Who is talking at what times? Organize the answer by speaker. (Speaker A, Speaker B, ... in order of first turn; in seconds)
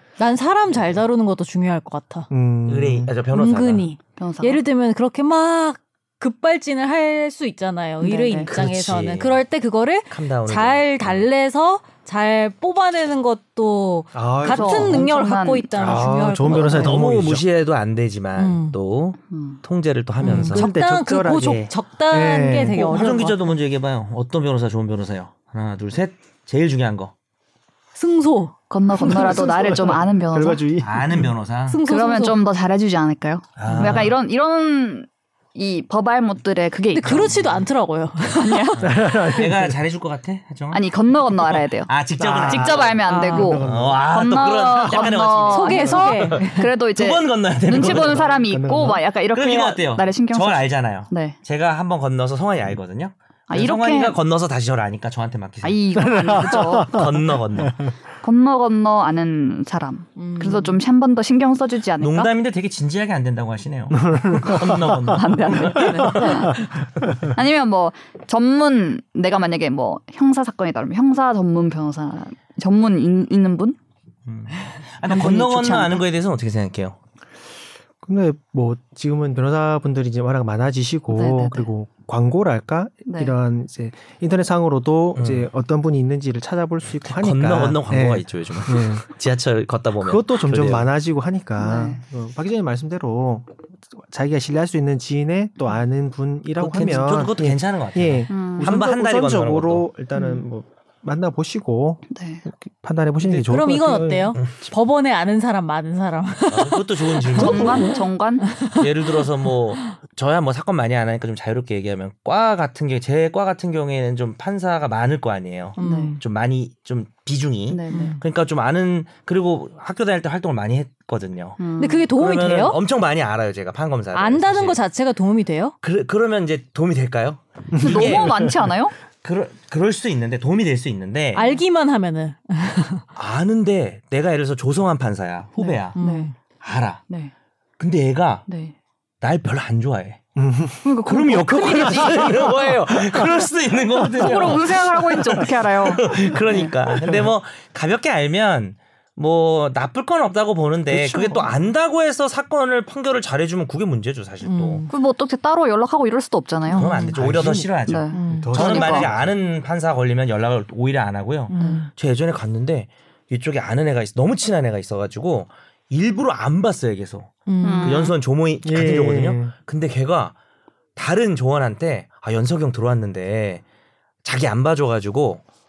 Speaker A: 0.2-2.3, 3.3-17.0, 18.4-18.8, 20.2-23.4, 27.9-28.6, 31.7-32.4, 33.6-34.0, 36.9-38.8, 43.0-43.5, 45.5-46.7, 60.1-60.8, 103.4-109.2, 115.8-116.2, 117.9-118.2, 121.8-122.8, 124.1-125.7, 131.3-133.0, 135.9-136.3, 154.4-154.9, 156.7-157.2, 158.1-158.7, 161.5-161.9, 167.5-167.9
Speaker B: 2.3-3.1, 14.1-15.1, 15.8-17.4, 20.3-22.9, 29.0-31.3, 38.8-39.8, 42.2-44.0, 44.8-45.1, 47.8-49.0, 56.0-57.9, 63.9-65.2, 65.8-66.7, 78.0-89.0, 90.0-104.3, 127.7-128.7, 140.3-140.9, 142.9-143.4, 144.0-144.5, 150.9-151.5, 157.2-159.3, 168.6-169.5
Speaker C: 2.6-3.9, 8.5-9.4, 10.1-11.2, 16.6-20.7, 22.7-27.1, 30.8-31.8, 33.6-34.1, 38.8-48.4, 49.2-57.9, 62.0-66.7, 74.2-77.0, 85.1-85.5, 87.1-90.9, 96.6-99.9, 104.3-104.7, 106.5-107.9, 108.6-121.6, 122.1-124.8, 125.8-128.5, 129.2-131.4, 133.1-136.0, 136.6-137.0, 137.8-138.5, 139.2-140.2, 141.1-154.8, 156.7-170.3, 170.9-173.6, 174.2-175.4
Speaker D: 4.2-4.6, 8.0-8.5, 14.4-16.1, 19.3-19.6, 28.7-30.6, 31.8-37.4, 38.2-39.0, 40.7-51.4, 53.5-54.2, 55.6-57.1, 58.2-62.3, 64.5-66.7, 67.2-73.8, 75.0-76.0, 81.1-81.7, 83.1-83.3, 91.6-92.0, 98.3-98.7, 100.2-100.4, 102.1-102.4, 107.3-108.5, 115.8-116.2, 117.7-118.2, 121.6-122.1, 127.8-128.9, 131.3-131.6, 135.6-136.3, 138.5-138.7, 140.8-142.5, 144.1-146.7, 154.9-157.3, 157.8-159.1, 161.6-161.8, 167.6-168.1